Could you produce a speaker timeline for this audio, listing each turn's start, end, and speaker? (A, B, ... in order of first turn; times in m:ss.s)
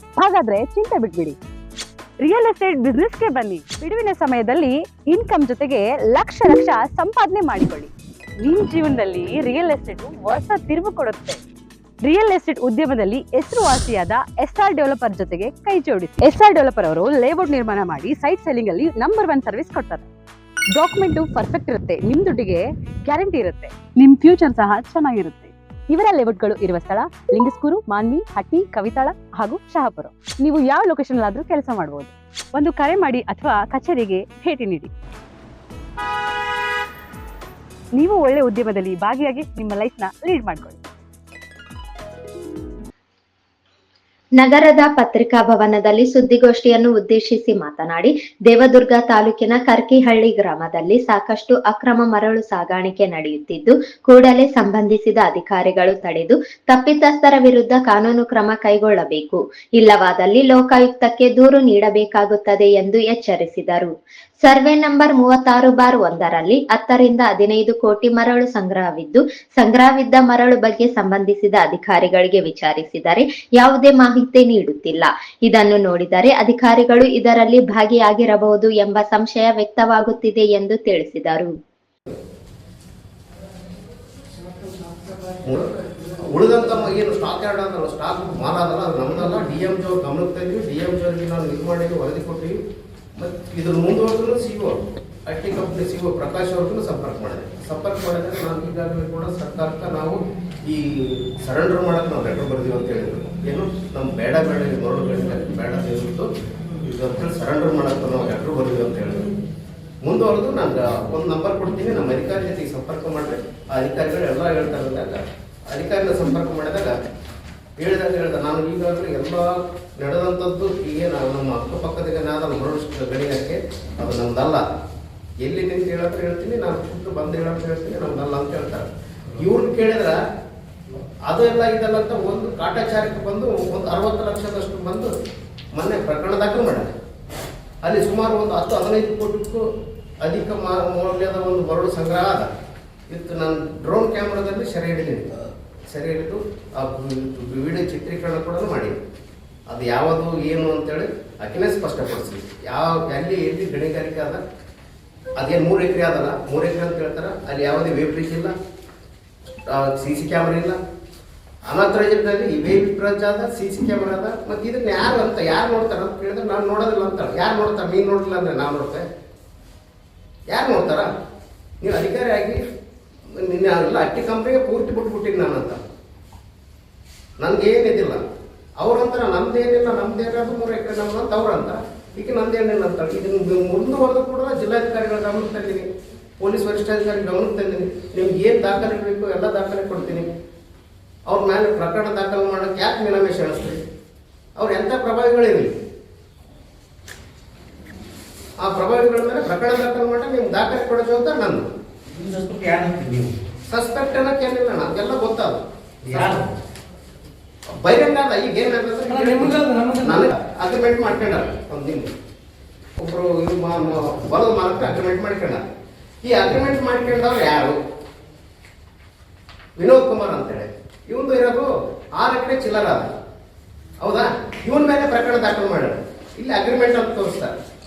0:00.2-0:01.4 A
0:02.2-0:11.4 A
0:12.0-0:20.1 A
0:20.7-0:34.9 A
0:38.0-0:40.8 A
0:44.4-1:03.9 B
1:04.4-1:21.5 B
1:25.4-1:32.6 C
1:33.2-1:49.3 C
1:50.0-1:57.0 C
1:57.8-2:04.6 C
2:05.4-2:10.2 C
2:11.3-2:15.1 C
2:15.7-2:16.9 C
2:17.8-2:19.6 C
2:20.2-2:22.5 C
2:23.1-2:25.4 C
2:25.9-2:29.0 C
2:29.7-2:34.4 C
2:35.4-2:38.5 C
2:39.7-2:40.8 C
2:41.7-2:49.0 C
2:50.5-2:51.1 C
2:51.8-2:52.6 C
2:53.3-2:55.8 C
2:57.4-2:58.2 C
2:58.8-3:05.9 C
3:06.4-3:10.3 C
3:11.3-3:13.8 C
3:14.6-3:15.7 C
3:18.6-3:21.7 C
3:22.1-3:23.3 D
3:23.7-3:26.5 C
3:26.1-3:26.5 D
3:27.8-3:32.1 C
3:29.5-3:29.9 D
3:33.0-3:35.6 C
3:36.2-3:37.8 C
3:39.8-3:43.1 C
3:44.0-3:47.6 C